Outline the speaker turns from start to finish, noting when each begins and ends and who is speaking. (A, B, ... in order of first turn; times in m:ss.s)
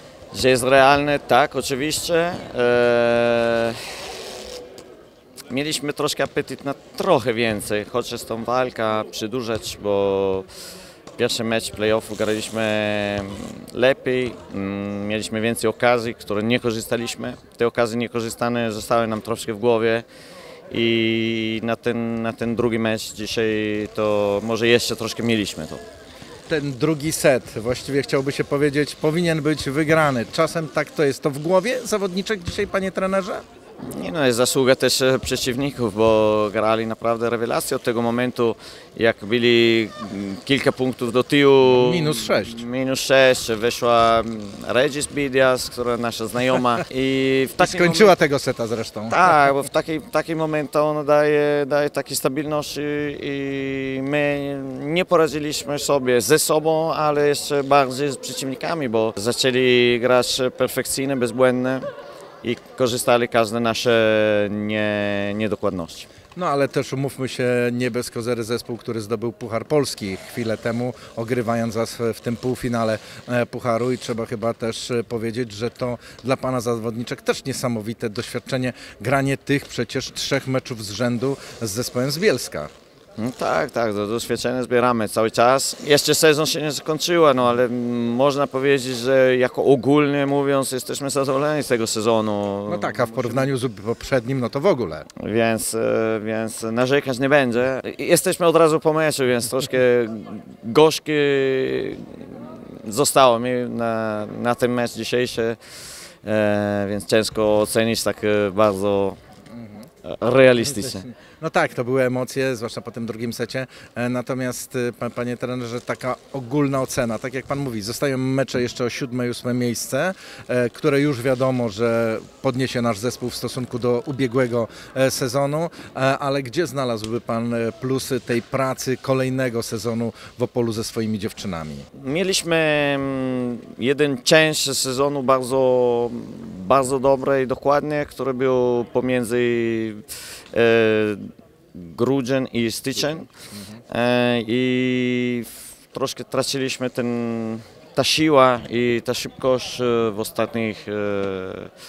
0:00.3-0:04.1 A
0:05.5-0:10.5 A
0:11.2-0:20.0 A
0:20.7-0:25.8 A
0:26.5-0:33.4 B
0:33.8-0:48.2 A
0:41.6-0:42.6 B
0:47.6-0:49.2 B
0:49.1-1:01.8 A
1:02.4-1:06.1 A
1:06.4-1:22.7 B
1:23.2-1:33.5 A
1:32.7-1:35.1 B
1:35.2-1:45.6 A
1:46.2-1:49.2 A
1:49.6-1:49.8 B
1:50.0-1:51.1 A
1:50.6-2:11.9 B
2:12.0-2:23.3 A
2:23.9-2:31.7 A